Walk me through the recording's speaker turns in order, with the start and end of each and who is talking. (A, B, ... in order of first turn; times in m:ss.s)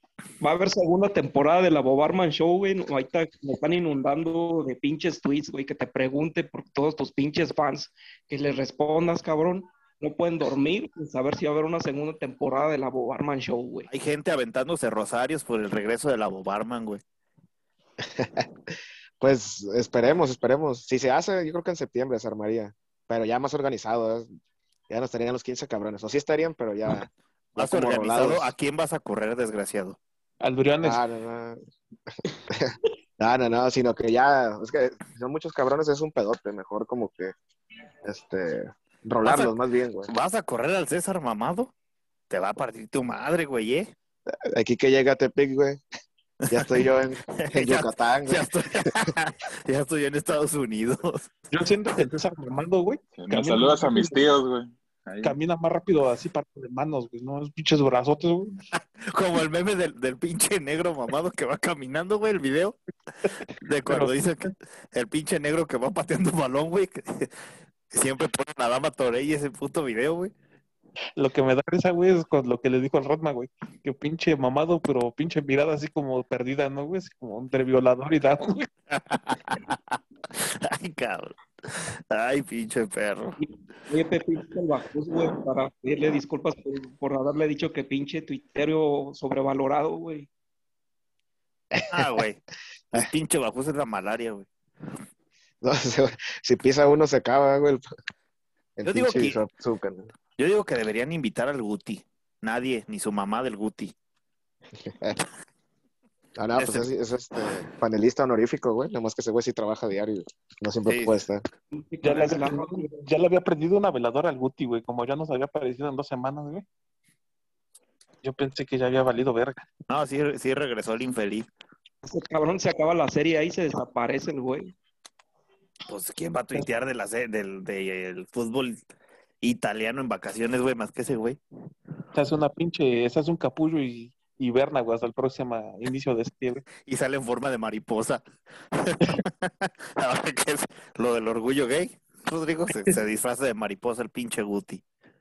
0:00.4-0:13.9 A
0:13.9-0:17.0 B
0:18.0-0:24.3 C
0:24.9-0:28.5 C
0:27.6-0:30.0 B
0:30.4-0:31.0 D
0:30.8-0:31.6 C
0:32.2-0:37.3 C
0:38.0-0:40.1 C
0:39.2-0:39.5 B
0:40.1-0:41.7 B
0:42.3-0:43.9 B
0:44.6-0:45.8 C
0:46.5-0:46.8 B
0:46.5-0:48.9 C
0:47.4-0:51.4 B
0:51.5-0:54.3 D
0:53.1-0:55.4 E
0:55.2-0:58.6 D
0:59.0-1:02.8 B
1:03.6-1:07.3 B
1:03.9-1:04.2 D
1:07.9-1:10.3 B
1:11.2-1:18.7 D
1:18.9-1:23.4 B
1:23.4-1:30.3 A
1:31.7-1:32.1 C
1:31.9-1:32.4 B
1:32.9-1:34.5 B
1:35.6-1:37.8 C
1:38.8-1:40.1 C
1:38.8-1:39.4 B
1:40.4-1:43.9 B
1:44.7-1:45.2 C
1:46.4-1:51.4 C
1:46.6-1:47.6 B
1:50.8-1:51.2 B
1:51.7-1:52.9 A
1:52.0-1:56.6 D
1:58.2-1:59.6 D
1:59.9-2:01.5 B
2:02.0-2:04.7 A
2:05.9-2:08.8 B
2:09.4-2:11.4 B
2:12.1-2:16.6 D
2:16.8-2:24.8 B